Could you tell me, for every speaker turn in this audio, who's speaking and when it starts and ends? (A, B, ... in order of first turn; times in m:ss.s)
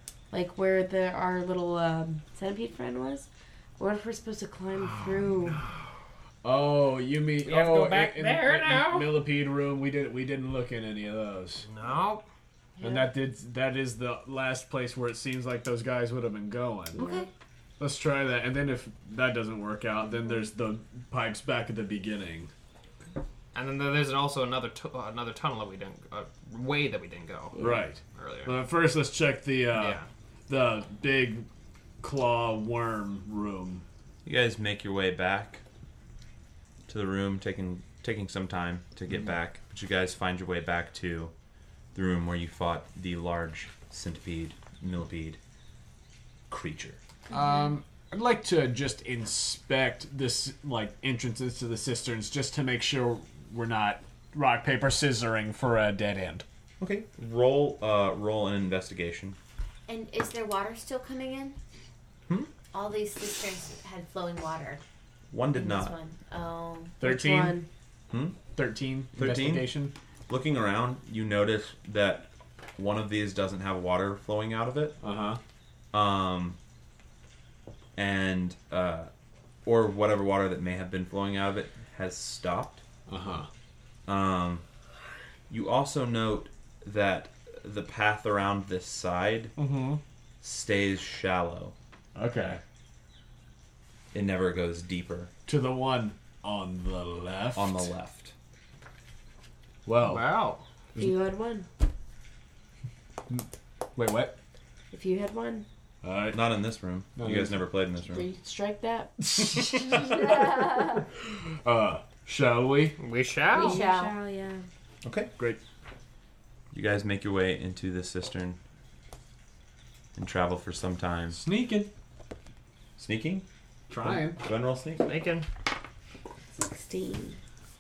0:00.3-0:05.6 A
0:06.4-0:11.7 B
0:07.4-0:09.3 C
0:11.6-0:12.2 C
0:12.8-0:13.1 A
0:12.8-0:17.0 B
0:17.0-0:17.2 A
0:17.0-0:17.3 D
0:17.8-0:22.5 B
0:23.5-0:28.6 C
0:27.6-0:27.9 A
0:27.6-0:31.5 B
0:29.7-0:30.1 C
0:32.0-0:33.8 B
0:34.2-0:35.6 E
0:36.9-0:41.3 E
0:41.9-0:45.4 E
0:46.5-0:47.0 E
0:47.3-0:56.4 B
0:56.8-0:59.4 E
0:59.9-1:01.6 D
1:02.7-1:04.8 D
1:05.3-1:06.0 E
1:05.5-1:07.0 D
1:07.0-1:07.6 B
1:07.0-1:07.7 A
1:08.1-1:08.4 E
1:08.5-1:09.9 B
1:09.1-1:15.0 E
1:15.0-1:15.4 B
1:15.9-1:16.6 E
1:18.0-1:19.1 E
1:19.6-1:22.8 E
1:23.1-1:23.5 B
1:24.1-1:24.6 E
1:25.5-1:29.6 E
1:29.6-1:30.0 B
1:30.4-1:31.8 E
1:32.2-1:32.6 B
1:34.1-1:35.3 E
1:35.5-1:37.9 B
1:37.6-1:38.4 E
1:39.9-1:40.3 B
1:40.0-1:40.6 C
1:41.0-1:41.7 A
1:44.0-1:44.4 B
1:44.9-1:45.7 A
1:46.0-1:46.4 B
1:46.3-1:48.3 E
1:47.2-1:47.6 B
1:48.1-1:51.0 A
1:49.2-1:50.4 B
1:51.6-1:53.0 B
1:53.0-1:53.9 C
1:53.5-1:54.2 D
1:53.5-1:54.6 A
1:55.0-1:55.3 E
1:56.7-1:58.6 E
2:00.2-2:01.4 E
2:01.4-2:01.9 B
2:03.0-2:03.5 E
2:03.9-2:04.4 B
2:04.0-2:05.1 E
2:05.0-2:05.5 C
2:06.5-2:07.4 A